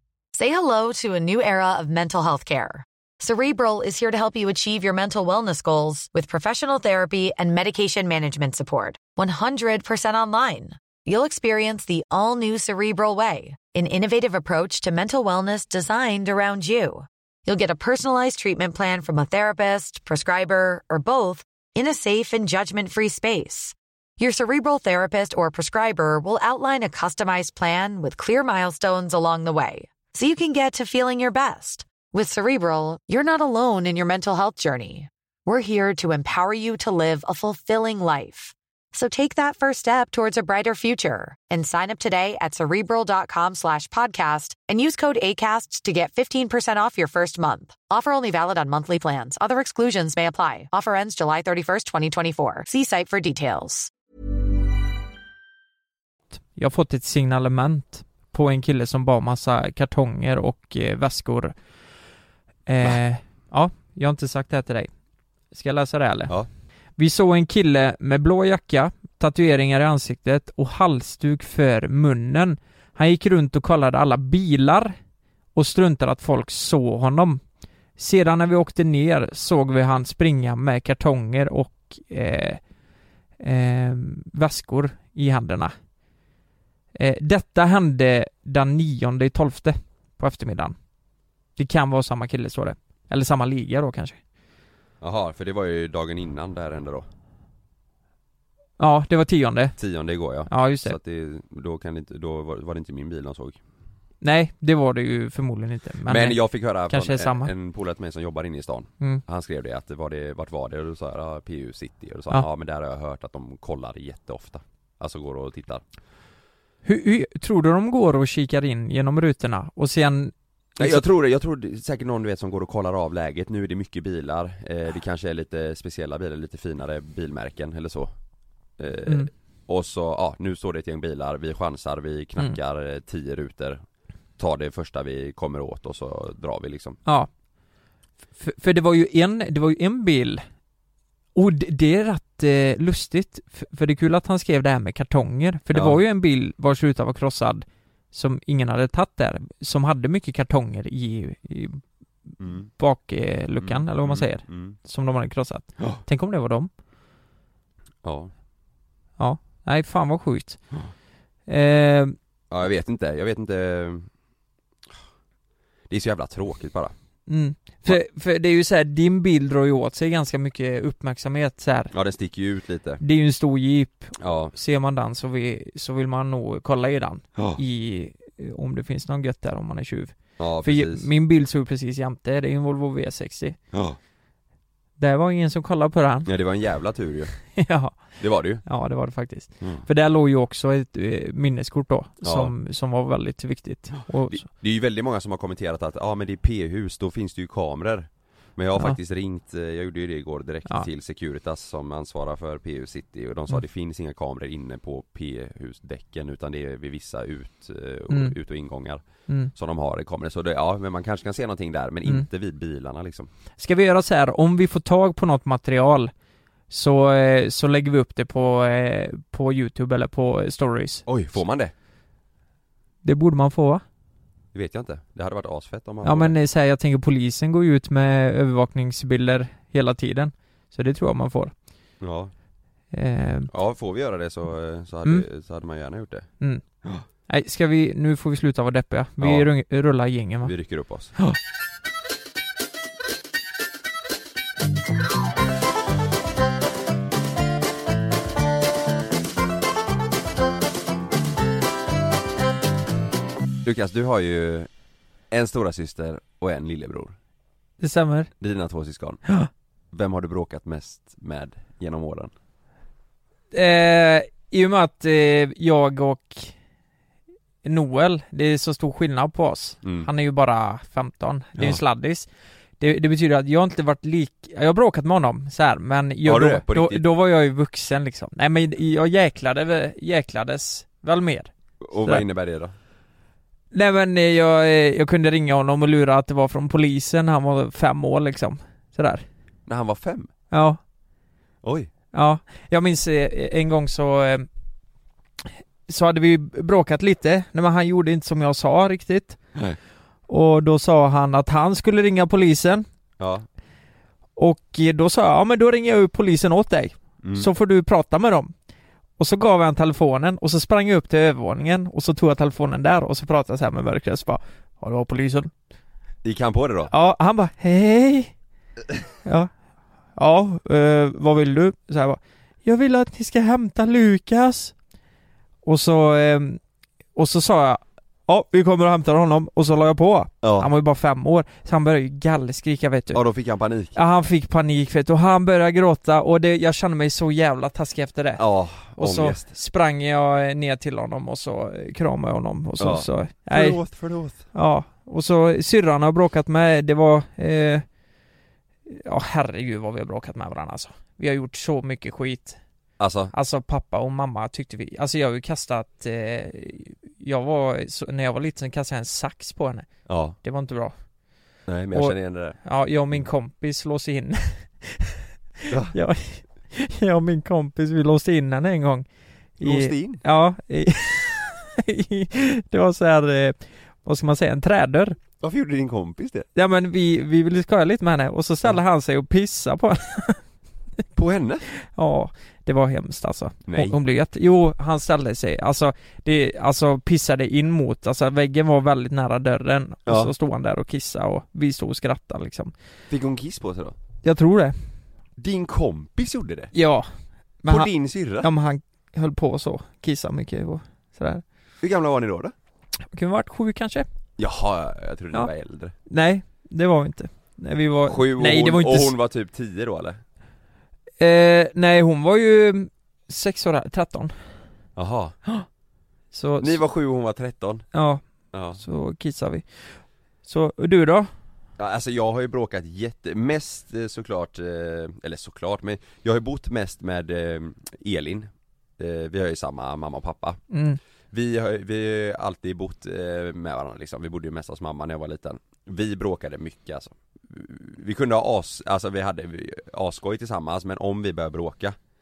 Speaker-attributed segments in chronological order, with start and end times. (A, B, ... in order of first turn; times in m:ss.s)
0:00.3-0:53.9 A
0:56.5-1:01.5 B
1:02.7-1:04.9 B
1:05.5-1:06.3 B
1:07.0-1:15.0 B
1:15.5-1:17.4 B
1:18.0-1:22.6 B
1:23.4-1:25.7 B
1:26.9-1:30.7 B
1:31.6-1:34.2 B
1:35.0-1:37.0 C
1:38.8-1:39.8 B
1:39.8-1:43.6 C
1:40.5-1:41.0 B
1:44.2-1:47.5 B
1:46.0-1:55.8 C
1:56.8-2:01.0 B
2:00.8-2:08.1 C
2:08.8-2:13.8 C
2:14.4-2:17.0 C
2:18.4-2:20.4 B
2:21.3-2:31.8 B
2:25.7-2:26.0 C
2:32.4-2:32.7 C
2:32.8-2:36.7 B
2:33.6-2:34.8 C
2:38.0-2:38.3 C
2:39.2-2:40.6 B
2:41.5-2:42.2 B
2:42.5-2:44.1 C
2:45.9-2:46.9 C
2:47.3-2:51.9 B
2:51.9-2:53.0 C
2:53.0-3:03.6 B
2:54.2-2:54.5 C
2:57.4-2:57.6 C
3:00.4-3:01.1 C
3:03.7-3:04.0 C
3:05.0-3:06.3 B
3:06.2-3:07.3 C
3:07.6-3:08.0 B
3:08.2-3:08.6 C
3:08.6-3:14.4 B
3:12.2-3:12.5 C
3:13.9-3:29.0 C
3:28.1-3:28.3 B
3:29.5-3:33.3 C
3:33.6-3:36.1 B
3:36.7-3:41.0 B
3:41.0-3:41.7 C
3:43.0-3:43.8 B
3:44.5-3:46.4 C
3:46.0-3:51.5 B
3:52.0-3:52.3 C
3:52.9-3:53.5 B
3:53.5-3:56.3 C
3:57.3-4:00.5 B
3:59.2-3:59.5 C
4:00.4-4:01.2 C
4:13.6-4:14.7 C
4:15.3-4:17.1 C
4:17.8-4:18.3 B
4:18.4-4:19.2 C
4:19.9-4:22.3 C
4:23.5-4:26.5 B
4:27.6-4:32.3 B
4:29.8-4:30.1 C
4:32.8-4:42.2 B
4:36.2-4:37.0 C
4:41.8-4:42.7 C
4:43.7-4:49.2 B
4:49.7-4:50.3 C
4:50.5-4:50.8 B
4:51.6-4:51.9 C
4:52.1-4:54.5 B
4:55.9-4:59.4 B
5:00.3-5:02.8 B
5:03.2-5:03.4 C
5:04.4-5:08.5 B
5:07.2-5:07.5 C
5:09.2-5:15.5 B
5:16.2-5:16.9 C
5:16.9-5:18.3 B
5:19.2-5:19.5 B
5:20.2-5:24.7 B
5:25.6-5:26.6 B
5:27.1-5:33.2 B
5:30.4-5:30.7 C
5:33.1-5:34.0 C
5:33.9-5:43.8 B
5:38.4-5:39.5 C
5:42.8-5:44.4 C
5:44.5-5:47.8 B
5:48.9-5:52.6 B
5:53.0-5:53.3 C
5:53.3-5:59.9 B
6:00.0-6:00.4 C
6:00.4-6:00.9 B
6:01.7-6:02.6 C
6:01.9-6:09.1 B
6:05.7-6:06.0 C
6:09.6-6:15.2 B
6:09.6-6:10.2 C
6:15.4-6:16.5 C
6:16.5-6:20.4 B
6:21.1-6:21.6 C
6:21.8-6:32.7 B
6:23.7-6:24.0 C
6:30.0-6:30.3 C
6:33.1-6:34.0 C
6:34.2-6:34.8 B
6:35.4-6:36.7 C
6:36.7-6:37.1 B
6:37.6-6:41.4 B
6:37.6-6:38.5 C
6:41.8-6:42.5 C
6:43.1-6:44.1 B
6:44.4-6:45.9 C
6:46.1-6:49.1 B
6:48.1-6:50.2 C
6:51.2-6:54.3 B
6:55.0-6:55.4 C
6:56.3-6:56.8 B
6:56.6-6:57.8 C
6:57.9-6:58.2 B
6:58.5-6:58.8 C
6:58.8-7:01.3 B
7:01.8-7:10.6 C
7:10.7-7:11.0 B
7:11.3-7:22.0 C